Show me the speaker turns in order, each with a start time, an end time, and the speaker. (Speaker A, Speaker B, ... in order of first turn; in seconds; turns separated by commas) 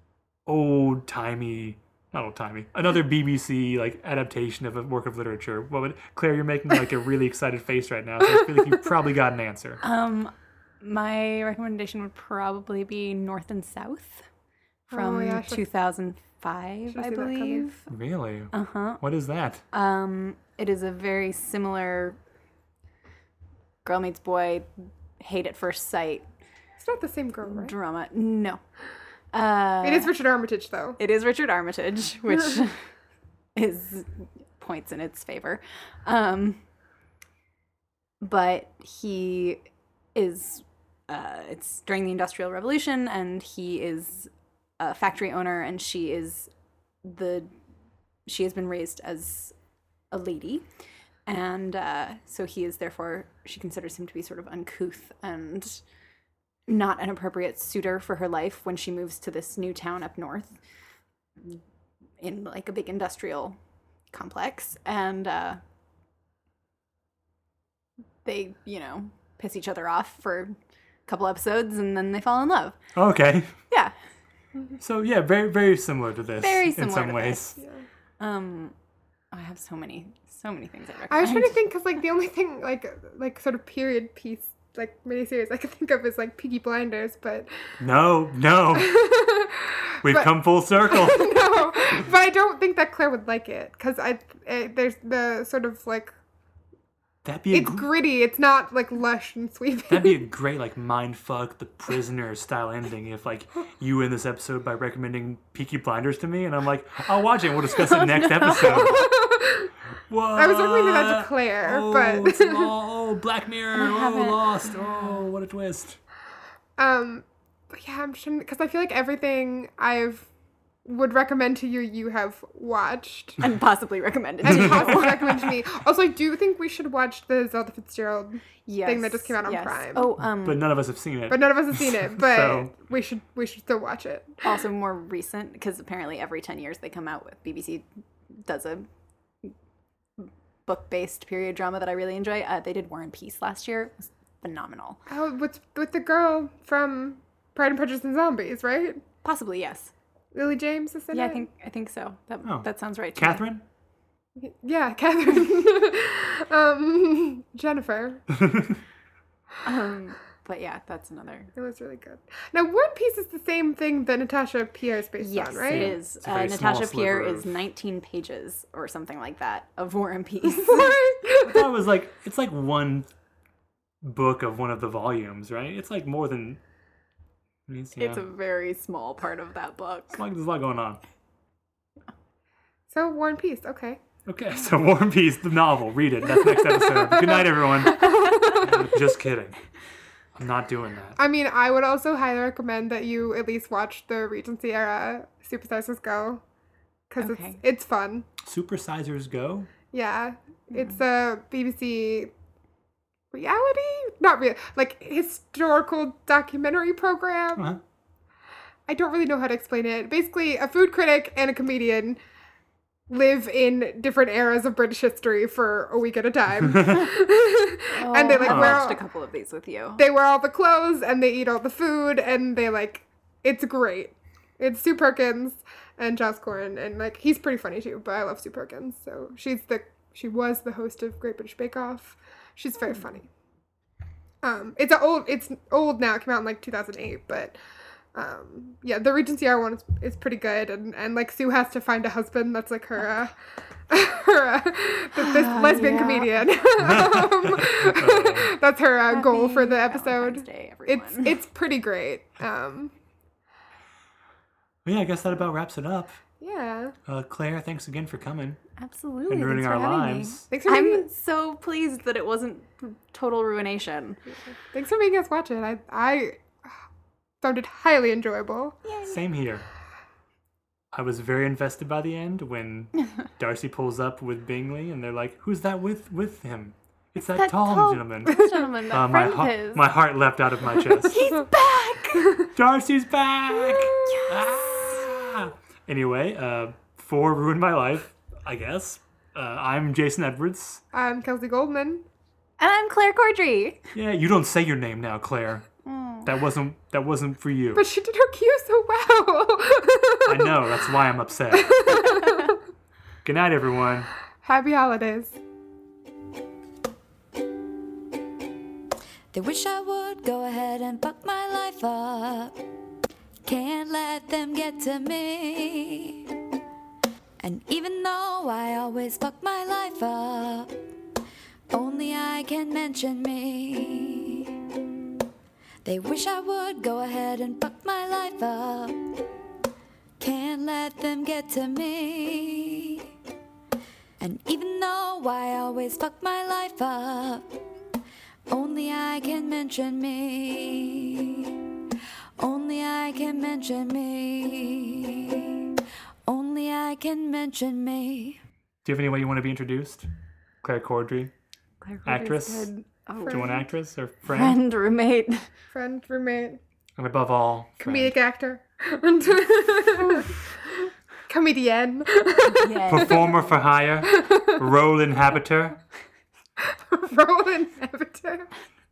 Speaker A: 0.5-9.8, Speaker B: 9.8-14.3, Speaker B: 14.9-17.9, Speaker C: 14.9-15.6, Speaker C: 16.9-17.7, Speaker A: 17.9-19.6, Speaker B: 18.5-19.0, Speaker B: 19.7-22.2, Speaker B: 23.8-26.3, Speaker C: 26.8-27.8, Speaker B: 27.5-28.6, Speaker B: 29.3-30.1, Speaker C: 29.8-31.0, Speaker B: 31.0-32.8, Speaker B: 33.5-36.6, Speaker B: 38.2-39.6, Speaker B: 40.1-46.5, Speaker B: 47.0-47.5, Speaker B: 48.3-49.5, Speaker B: 50.1-50.6, Speaker B: 51.3-55.8, Speaker B: 56.7-60.6, Speaker B: 62.2-63.6, Speaker B: 64.1-65.6, Speaker B: 68.2-70.6, Speaker B: 71.1-72.8, Speaker A: 73.0-73.6, Speaker A: 74.8-77.6, Speaker B: 76.4-77.6, Speaker C: 77.6-77.9, Speaker B: 78.2-78.8, Speaker B: 79.3-81.6, Speaker C: 81.1-87.6, Speaker A: 87.8-88.9, Speaker C: 88.7-96.1, Speaker A: 90.0-91.4, Speaker A: 97.2-97.9, Speaker C: 97.5-100.2, Speaker A: 99.9-109.1, Speaker B: 107.8-109.1, Speaker C: 108.8-109.7, Speaker A: 110.1-116.0, Speaker C: 110.4-112.7, Speaker B: 113.7-115.2, Speaker C: 116.8-120.3, Speaker C: 120.8-123.4, Speaker B: 123.4-125.4, Speaker C: 124.4-130.1, Speaker A: 124.5-125.5, Speaker B: 128.7-130.7, Speaker A: 130.3-132.7, Speaker C: 131.3-134.6, Speaker B: 134.4-137.9, Speaker B: 138.4-138.9, Speaker B: 140.2-145.0, Speaker C: 145.1-149.0, Speaker B: 149.2-149.9, Speaker C: 150.3-151.4, Speaker B: 151.1-153.4, Speaker A: 152.4-153.7, Speaker C: 154.4-158.3, Speaker A: 158.4-158.8, Speaker B: 159.6-161.5, Speaker C: 161.6-165.9, Speaker B: 165.2-171.0, Speaker A: 165.7-167.5, Speaker C: 170.4-171.7, Speaker A: 171.4-173.1, Speaker A: 174.0-176.6, Speaker A: 177.7-178.3, Speaker B: 178.0-180.2, Speaker A: 180.1-181.0, Speaker C: 182.9-184.0, Speaker A: 184.3-189.6, Speaker C: 187.1-188.6, Speaker B: 188.2-188.5, Speaker A: 190.4-191.2, Speaker C: 191.2-196.4, Speaker C: 197.1-198.3, Speaker B: 197.2-197.6, Speaker A: 198.4-199.7, Speaker C: 199.9-202.3, Speaker C: 203.3-207.7, Speaker C: 208.9-212.2, Speaker C: 213.1-219.0, Speaker B: 217.9-220.0, Speaker A: 218.4-218.9, Speaker C: 220.0-233.3, Speaker C: 234.4-237.6, Speaker C: 238.1-243.3, Speaker C: 243.9-252.9, Speaker B: 245.1-246.5, Speaker A: 246.8-248.5, Speaker B: 249.1-251.4, Speaker A: 254.8-256.2, Speaker C: 256.4-256.9, Speaker A: 257.1-258.6, Speaker B: 258.8-264.2, Speaker A: 259.3-260.5, Speaker C: 260.5-261.1, Speaker C: 264.7-266.4, Speaker C: 267.4-268.8, Speaker B: 268.9-269.2, Speaker A: 269.1-269.6, Speaker A: 270.9-281.2, Speaker B: 277.2-279.9, Speaker B: 281.1-282.3, Speaker A: 282.5-290.8, Speaker B: 284.1-284.4, Speaker C: 290.9-292.1, Speaker B: 292.6-293.9, Speaker A: 293.9-295.7, Speaker B: 295.9-296.3, Speaker A: 296.2-297.9, Speaker C: 297.8-300.5, Speaker A: 300.3-301.9, Speaker C: 301.5-302.5, Speaker B: 302.1-302.5, Speaker A: 303.2-304.1, Speaker C: 304.4-305.4, Speaker D: 309.3-312.6, Speaker D: 313.4-316.3, Speaker D: 317.4-320.7, Speaker D: 321.7-324.6, Speaker D: 325.8-329.2, Speaker D: 330.2-333.1, Speaker D: 334.2-337.5, Speaker D: 338.5-341.6, Speaker D: 342.4-345.8, Speaker D: 346.3-348.4, Speaker A: 348.9-350.1, Speaker A: 350.6-351.3, Speaker B: 351.8-353.6, Speaker A: 352.1-352.7, Speaker C: 353.2-353.6, Speaker A: 353.3-354.6, Speaker B: 354.3-355.5, Speaker C: 355.7-356.6, Speaker A: 357.0-358.2, Speaker C: 357.8-360.3, Speaker C: 361.3-363.2, Speaker B: 362.4-363.5, Speaker A: 362.9-365.8, Speaker C: 364.0-364.5, Speaker C: 366.7-368.5